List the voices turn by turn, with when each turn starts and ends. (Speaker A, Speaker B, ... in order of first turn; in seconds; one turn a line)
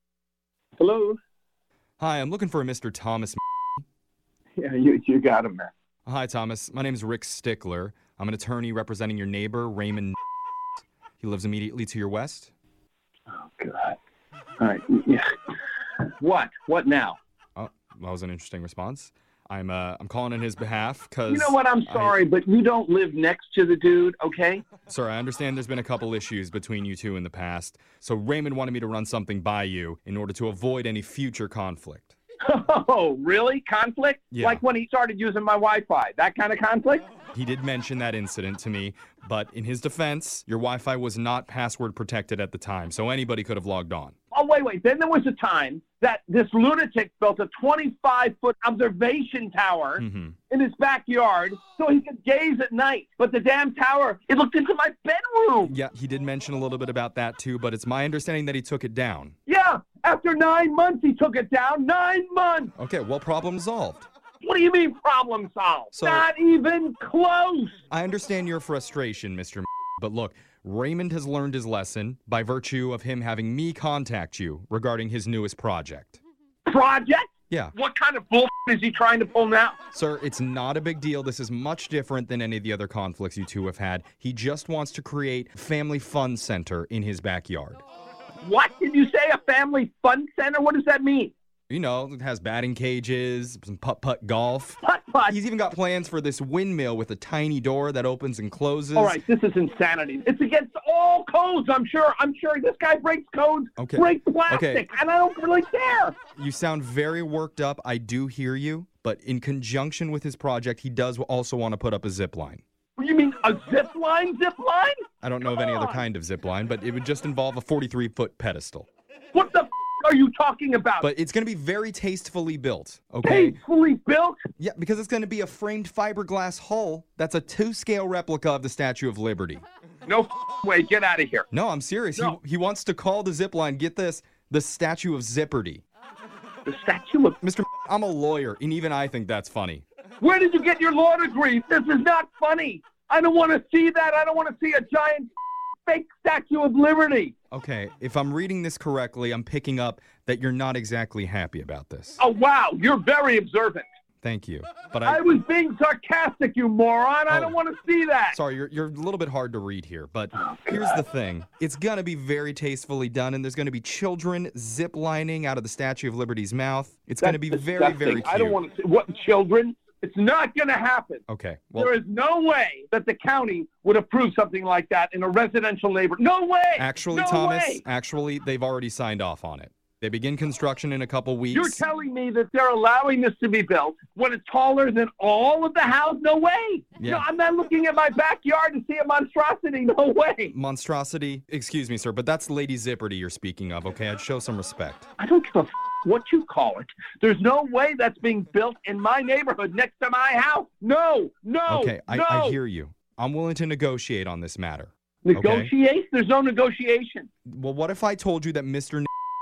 Speaker A: 0.8-1.2
Speaker B: 2.0-3.4
Speaker A: 4.6-5.7
Speaker B: 6.0-10.2
Speaker B: 11.2-12.5
Speaker A: 13.3-14.0
Speaker A: 14.6-15.3
Speaker A: 16.2-17.2
Speaker B: 17.6-22.2
Speaker A: 21.3-24.6
Speaker B: 24.9-32.1
Speaker A: 32.5-37.0
Speaker B: 34.3-34.6
Speaker B: 37.3-44.1
Speaker A: 44.3-55.8
Speaker B: 50.0-50.4
Speaker B: 55.6-59.3
Speaker A: 59.5-62.7
Speaker B: 62.8-64.1
Speaker A: 64.4-67.8
Speaker B: 65.9-66.3
Speaker B: 67.9-76.2
Speaker A: 76.7-79.8
Speaker B: 79.9-87.8
Speaker A: 88.4-91.3
Speaker B: 91.7-99.2
Speaker A: 94.8-95.4
Speaker A: 98.9-106.2
Speaker B: 103.8-104.8
Speaker B: 106.3-112.6
Speaker A: 113.0-116.0
Speaker B: 115.2-118.9
Speaker A: 119.3-121.1
Speaker B: 121.0-123.6
Speaker A: 123.2-124.4
Speaker B: 124.6-129.6
Speaker A: 130.1-131.4
Speaker B: 131.5-135.8
Speaker A: 136.7-137.4
Speaker B: 137.4-139.8
Speaker A: 140.2-145.3
Speaker A: 145.8-147.3
Speaker B: 147.5-152.2
Speaker A: 152.2-153.9
Speaker B: 154.2-155.2
Speaker A: 155.0-158.4
Speaker B: 157.3-157.6
Speaker B: 158.3-168.6
Speaker A: 160.3-161.0
Speaker A: 167.2-171.2
Speaker B: 171.3-171.9
Speaker A: 171.8-177.8
Speaker B: 176.8-181.8
Speaker A: 181.5-190.5
Speaker B: 187.0-187.2
Speaker B: 190.5-195.1
Speaker A: 195.2-202.6
Speaker B: 201.7-205.7
Speaker A: 205.2-207.3
Speaker B: 207.5-209.1